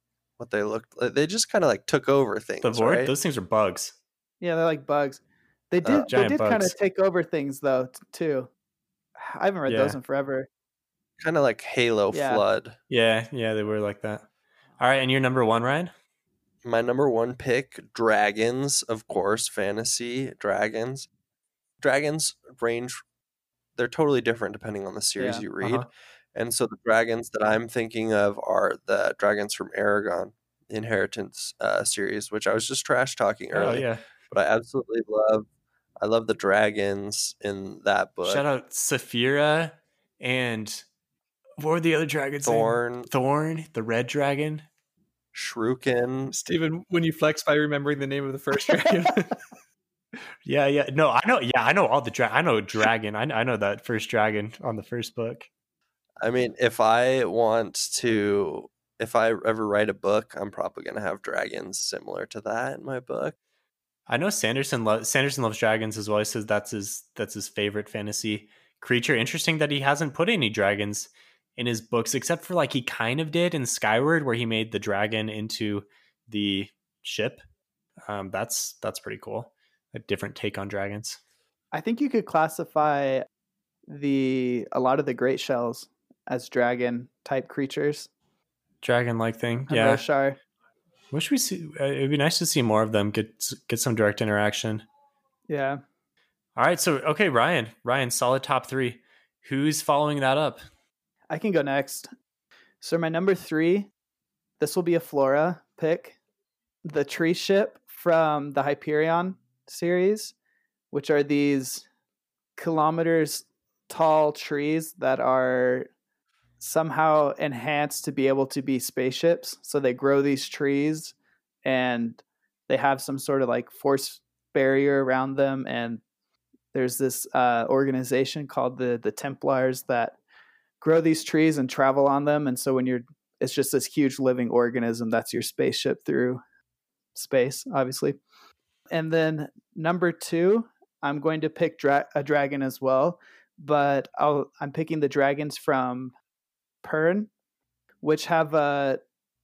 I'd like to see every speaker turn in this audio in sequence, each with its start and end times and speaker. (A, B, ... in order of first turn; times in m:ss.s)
0:00.4-0:03.1 A
0:02.6-0:04.0 B
0:04.4-0:08.5 C
0:05.8-0:06.1 A
0:06.1-0:06.7 B
0:09.2-0:10.5 C
0:09.7-0:10.0 B
0:11.2-0:12.8 A
0:12.1-0:12.4 C
0:12.9-0:14.3 B
0:14.8-0:15.9 B
0:16.6-0:21.1 A
0:21.8-0:23.0 A
0:23.8-0:35.5 A
0:25.2-0:25.4 C
0:25.6-0:25.9 B
0:33.5-0:34.0 B
0:36.0-0:38.4 A
0:38.2-0:40.8 B
0:41.6-0:44.6 B
0:42.4-0:43.1 A
0:45.3-0:46.3 A
0:46.3-0:49.3 D
0:50.5-0:55.5 B
0:56.2-1:03.4 A
1:04.1-1:17.4 B
1:18.1-1:21.2 B
1:21.7-1:23.2 C
1:23.9-1:28.1 C
1:28.8-1:30.0 B
1:29.7-1:30.4 C
1:31.1-1:34.8 B
1:35.5-1:35.8 C
1:36.6-1:40.6 B
1:41.3-1:42.1 C
1:42.8-1:43.9 C
1:44.6-1:46.2 C
1:46.8-1:50.3 C
1:50.9-1:51.8 C
1:52.6-1:55.9 C
1:56.6-2:06.0 C
2:06.7-2:10.2 C
2:10.8-2:16.4 C
2:17.2-2:18.2 C
2:18.9-2:26.1 C
2:26.8-2:27.3 C
2:28.0-2:29.0 C